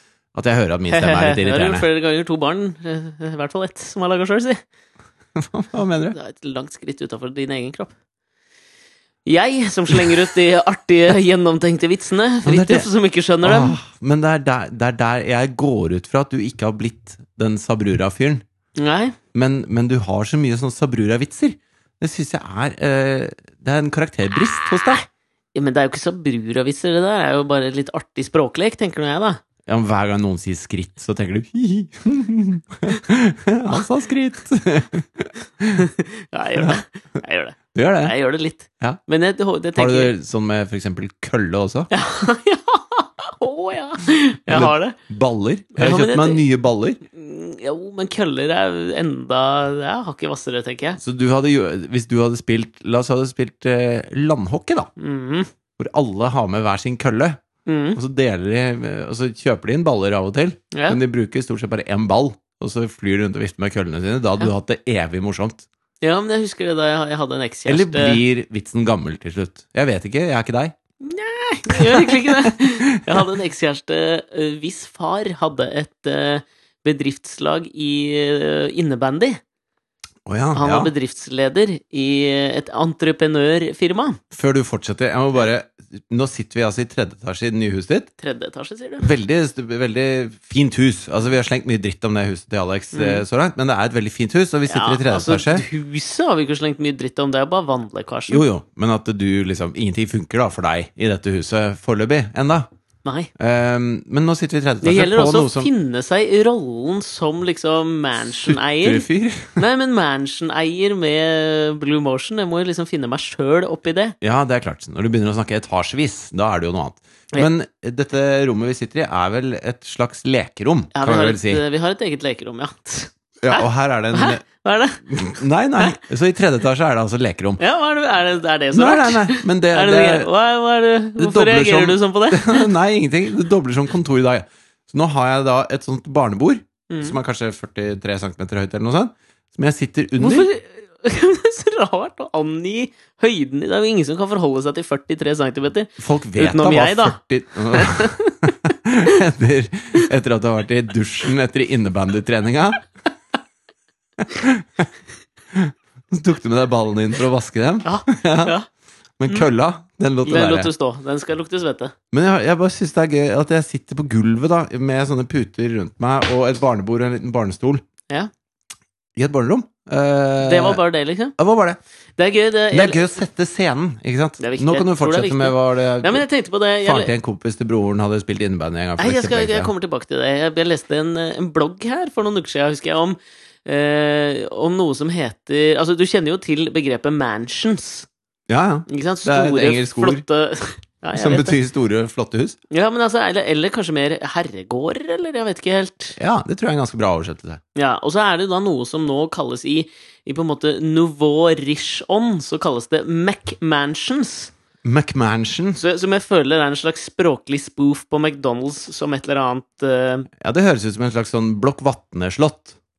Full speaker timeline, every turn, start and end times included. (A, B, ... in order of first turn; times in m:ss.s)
0:00.3-0:01.9 A
0:00.9-0:04.6 B
0:05.4-0:06.2 A
0:06.1-0:07.9 B
0:09.3-0:13.8 B
0:12.4-0:12.9 A
0:13.4-0:18.4 A
0:18.8-0:19.2 B
0:19.3-0:25.0 A
0:25.6-0:29.4 B
0:29.7-0:35.9 A
0:35.8-0:40.1 B
0:36.6-0:36.8 A
0:37.7-0:38.2 A
0:39.8-0:41.9 A
0:41.9-0:45.0 B
0:44.5-0:47.0 A
0:45.8-0:46.4 B
0:47.1-0:51.0 B
0:51.0-0:54.9 A
0:55.0-0:55.5 B
0:55.8-0:57.4 A
0:57.7-0:58.0 B
0:58.0-1:05.7 A
1:00.7-1:01.0 B
1:06.0-1:08.2 B
1:07.7-1:10.8 A
1:11.0-1:19.4 B
1:11.7-1:13.2 A
1:20.3-1:20.9 A
1:20.6-1:24.2 B
1:24.3-1:28.1 A
1:28.2-1:29.1 B
1:29.0-1:35.6 A
1:32.9-1:33.2 B
1:34.7-1:38.4 B
1:38.3-1:42.7 A
1:43.0-1:43.3 B
1:43.4-1:45.7 A
1:44.8-1:54.2 B
1:48.5-1:49.6 A
1:54.2-2:01.6 A
2:00.9-2:05.0 B
2:03.4-2:04.5 A
2:05.1-2:07.6 A
2:07.6-2:12.7 B
2:08.7-2:10.3 A
2:11.2-2:20.5 A
2:16.9-2:17.2 B
2:20.2-2:27.2 B
2:26.0-2:32.9 A
2:27.7-2:28.5 B
2:34.2-2:34.9 A
2:35.5-2:38.6 A
2:37.8-2:38.7 B
2:39.2-2:40.7 A
2:40.2-2:41.9 B
2:42.1-2:47.8 A
2:49.2-2:50.8 A
2:50.4-2:51.4 B
2:51.4-2:51.8 A
2:52.2-2:53.1 B
2:52.7-2:56.2 A
2:54.4-2:57.1 B
2:56.8-2:59.7 A
2:59.0-3:08.1 B
3:08.5-3:10.2 A
3:08.9-3:11.6 B
3:11.2-3:12.6 A
3:12.7-3:16.2 B
3:16.2-3:17.6 A
3:17.8-3:24.5 B
3:24.8-3:25.8 A
3:25.8-3:30.3 B
3:30.4-3:32.8 A